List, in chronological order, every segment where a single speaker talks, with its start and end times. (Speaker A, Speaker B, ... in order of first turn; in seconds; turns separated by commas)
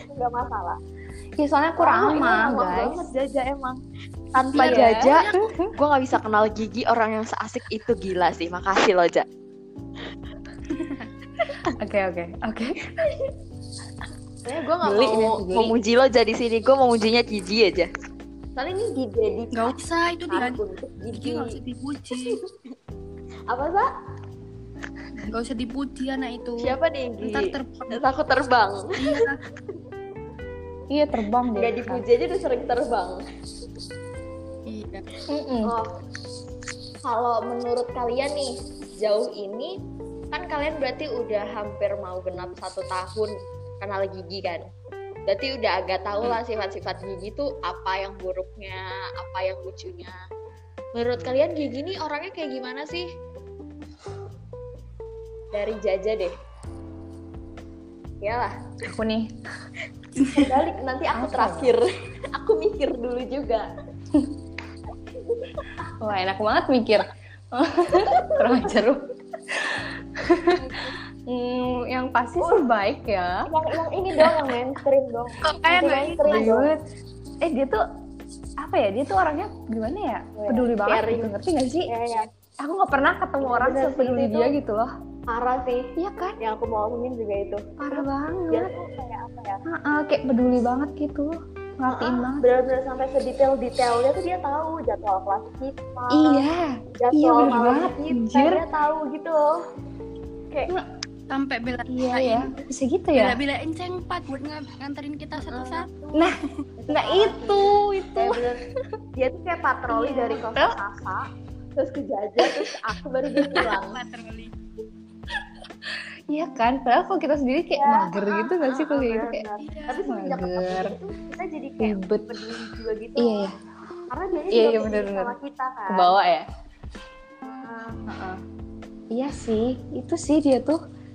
Speaker A: 0.1-0.8, Speaker B: 1.4-3.1, Speaker A: 1.8-3.8, Speaker A: 4.3-9.2, Speaker C: 4.5-5.4, Speaker B: 4.5-5.7, Speaker C: 10.7-11.1, Speaker B: 11.8-12.8, Speaker A: 14.4-17.9, Speaker B: 14.8-15.8, Speaker A: 18.6-19.8, Speaker C: 19.5-20.6, Speaker A: 20.3-21.6, Speaker C: 21.1-22.4, Speaker A: 22.1-22.5, Speaker A: 23.5-23.9, Speaker C: 25.2-26.7, Speaker A: 26.6-29.3, Speaker C: 27.2-28.0, Speaker C: 29.0-29.4, Speaker B: 30.9-32.0, Speaker A: 31.6-33.2, Speaker C: 34.6-35.0, Speaker B: 35.3-35.7, Speaker A: 35.6-35.9, Speaker A: 37.0-39.8, Speaker A: 40.3-44.6, Speaker A: 45.2-50.1, Speaker A: 50.9-53.1, Speaker A: 55.5-56.3, Speaker A: 58.2-58.6, Speaker B: 58.9-59.3, Speaker A: 60.2-63.7, Speaker B: 61.1-61.8, Speaker A: 65.2-65.6, Speaker B: 66.0-73.4, Speaker A: 67.9-68.4, Speaker A: 70.5-71.0, Speaker A: 72.4-72.7, Speaker A: 73.5-76.7, Speaker B: 74.2-74.5, Speaker C: 75.4-76.5, Speaker B: 76.2-76.8, Speaker B: 77.4-77.8, Speaker B: 78.6-81.9, Speaker A: 80.3-81.3, Speaker A: 81.9-82.3, Speaker B: 82.6-84.9, Speaker A: 83.4-84.5, Speaker A: 85.3-89.6, Speaker B: 86.0-86.4, Speaker B: 87.8-88.7, Speaker B: 89.7-92.5, Speaker A: 91.9-96.5, Speaker B: 96.1-98.6, Speaker A: 97.0-99.5, Speaker C: 101.3-102.5, Speaker B: 101.9-103.4, Speaker C: 103.2-105.9, Speaker A: 105.4-108.6, Speaker B: 106.9-108.4, Speaker A: 109.2-114.0, Speaker B: 109.9-110.8, Speaker B: 112.4-112.8, Speaker C: 113.5-114.5, Speaker B: 115.9-119.4, Speaker A: 117.8-123.5, Speaker C: 119.6-120.0, Speaker B: 120.0-120.9, Speaker B: 121.8-122.6, Speaker B: 123.2-123.5, Speaker A: 124.1-126.2, Speaker B: 124.5-125.3, Speaker B: 125.9-126.5, Speaker A: 127.5-128.0, Speaker B: 128.1-128.4, Speaker B: 129.1-130.8